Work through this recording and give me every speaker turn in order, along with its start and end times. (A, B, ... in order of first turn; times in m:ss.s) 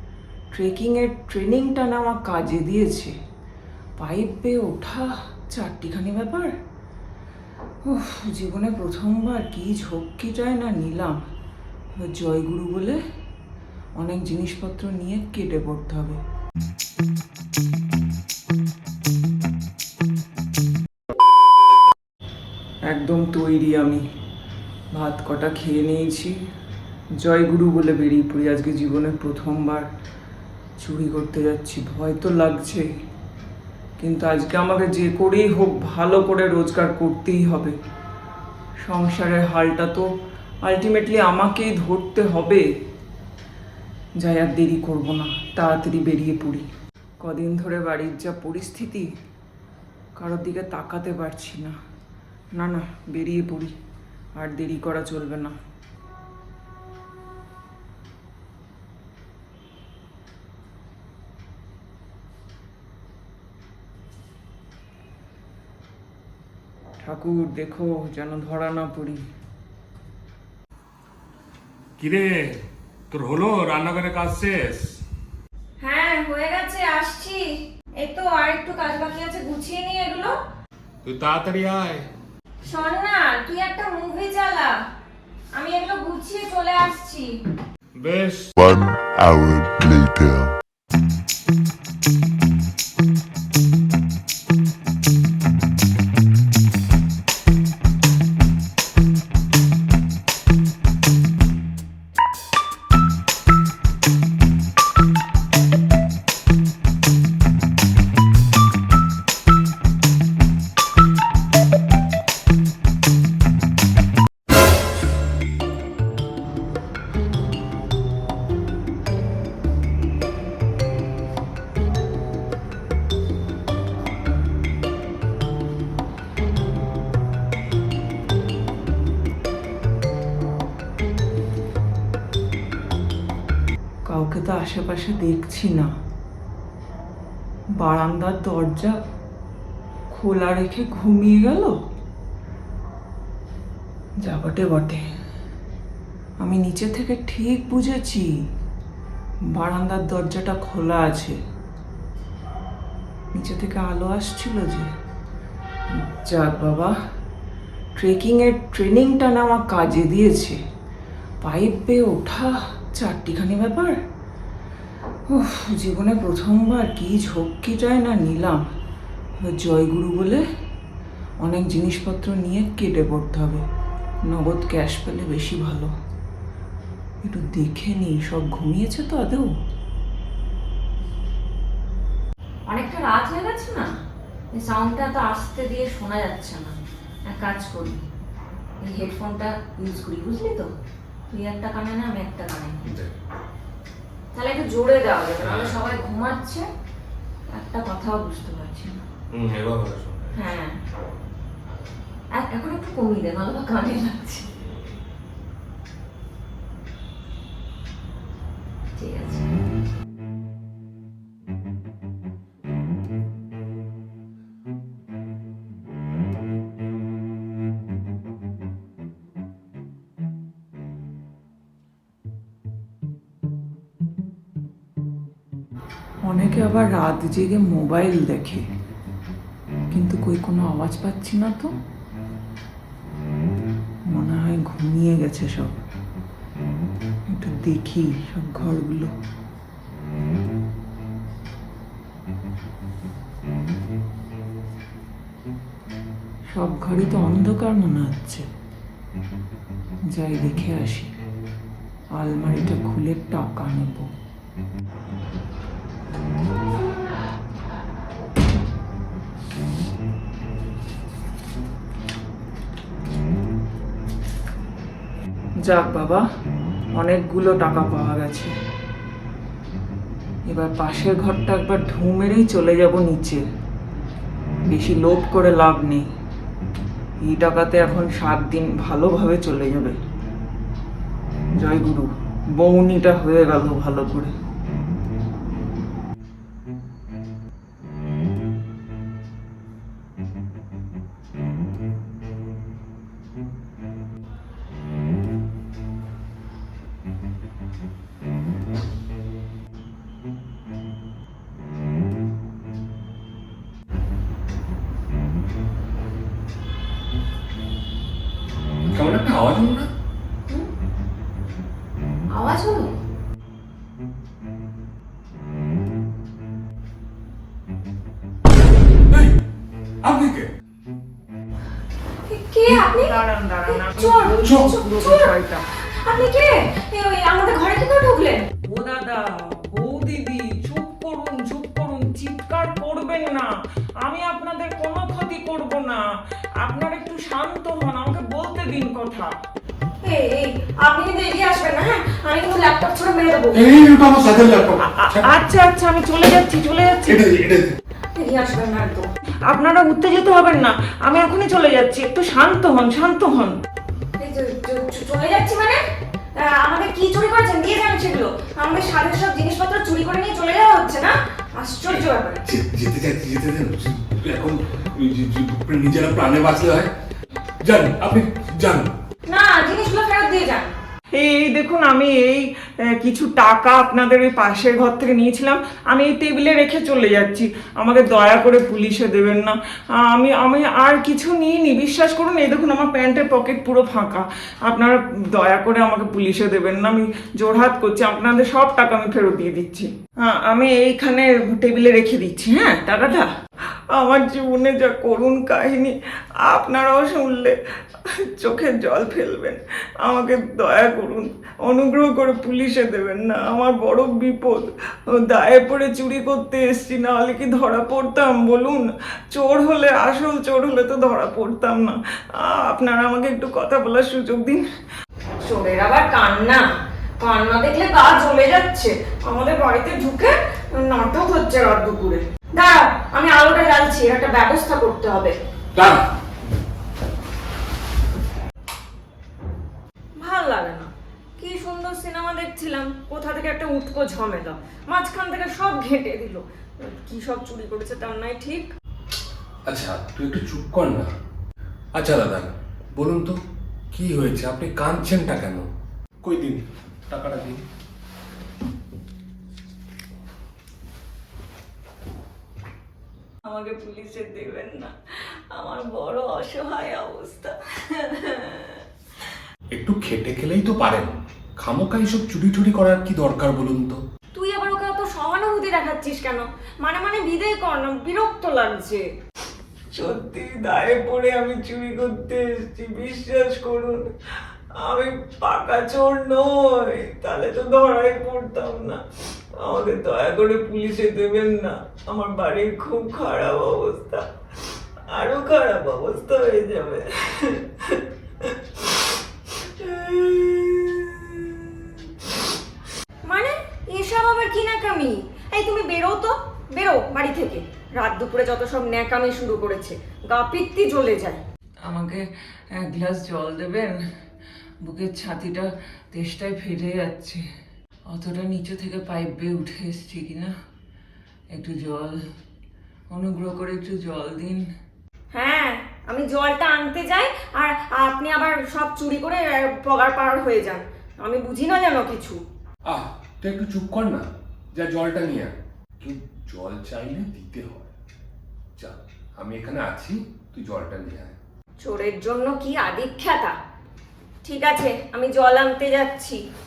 0:00.5-0:03.2 A
0:04.0-0:06.5 A
0:07.8-0:11.2 A
0:12.0-0:13.0 A
0:14.0-0:16.2 A
0:22.9-0:24.0 A
0:24.9-0:26.4 A
0:27.2-0:29.9 A
0:30.8-0:32.9 A
0:34.0-0:37.8 A
0:38.8-0:40.1 A
0:40.6-0:42.7 A
0:44.2-0:46.7 A
0:47.2-0:49.1 A
0:50.2-0:51.8 A
0:52.5-0:53.8 A
0:54.4-0:55.6 A
1:07.0-1:09.2 A
1:12.0-1:12.5 B
1:13.1-1:14.8 B
1:15.8-1:20.4 C
1:21.1-1:22.0 B
1:22.6-1:24.8 C
1:25.6-1:27.4 C
1:28.6-1:30.5 D
2:14.1-2:15.9 A
2:17.8-2:19.0 A
2:20.1-2:21.8 A
2:24.2-2:25.0 A
2:26.4-2:28.4 A
2:29.5-2:31.4 A
2:33.3-2:34.9 A
2:35.9-2:37.0 A
2:38.0-2:40.6 A
2:41.4-2:44.0 A
2:45.3-2:48.6 A
2:49.4-2:50.4 A
2:51.4-2:53.6 A
2:54.2-2:55.9 A
2:57.2-2:59.5 A
3:02.7-3:03.9 C
3:04.5-3:06.8 C
3:07.3-3:08.0 C
3:08.8-3:10.7 C
3:11.3-3:12.8 C
3:12.8-3:13.2 B
3:14.4-3:16.7 C
3:15.4-3:15.9 B
3:17.5-3:19.0 C
3:19.3-3:20.4 B
3:20.4-3:20.8 C
3:22.4-3:24.5 C
3:29.0-3:29.5 C
3:46.2-3:48.6 A
3:49.9-3:51.7 A
3:54.1-3:55.8 A
3:57.3-3:59.1 A
4:06.5-4:08.5 A
4:10.1-4:11.1 A
4:12.2-4:14.1 A
4:25.6-4:26.3 A
4:27.0-4:28.6 A
4:30.5-4:33.4 A
4:34.7-4:36.1 A
4:37.2-4:40.0 A
4:41.6-4:44.3 A
5:08.9-5:09.9 B
5:12.3-5:12.9 C
5:19.1-5:19.4 B
5:20.0-5:20.5 B
5:22.3-5:25.3 C
5:22.7-5:25.6 A
5:26.0-5:28.5 C
5:28.6-5:36.1 A
5:36.6-5:39.4 A
5:40.0-5:43.6 C
5:43.5-5:45.3 B
5:44.8-5:47.2 A
5:47.1-5:47.8 B
5:48.2-5:49.1 C
5:49.5-5:53.6 A
5:54.2-5:55.8 C
5:56.4-6:02.4 C
6:01.9-6:06.9 B
6:07.6-6:08.9 B
6:09.3-6:10.7 C
6:11.1-6:33.3 A
6:33.9-6:54.6 A
6:55.4-6:56.6 C
6:57.2-7:05.4 C
7:05.8-7:06.0 B
7:10.2-7:18.7 C
7:19.7-7:21.1 B
7:22.0-7:23.4 B
7:23.9-7:25.7 B
7:26.2-7:27.6 B
7:33.4-7:38.8 A
7:39.7-7:44.0 B
7:44.4-7:49.0 C
7:49.9-7:54.1 A
7:54.8-7:59.0 A
7:59.6-8:04.2 A
8:05.1-8:12.0 A
8:13.3-8:21.4 C
8:21.8-8:24.0 A
8:24.8-8:27.4 A
8:28.1-8:30.5 A
8:31.5-8:32.2 A
8:33.1-8:34.7 A
8:35.3-8:42.4 C
8:42.9-8:47.9 B
8:48.8-8:51.4 B
8:51.8-8:53.6 C
8:54.4-8:56.4 C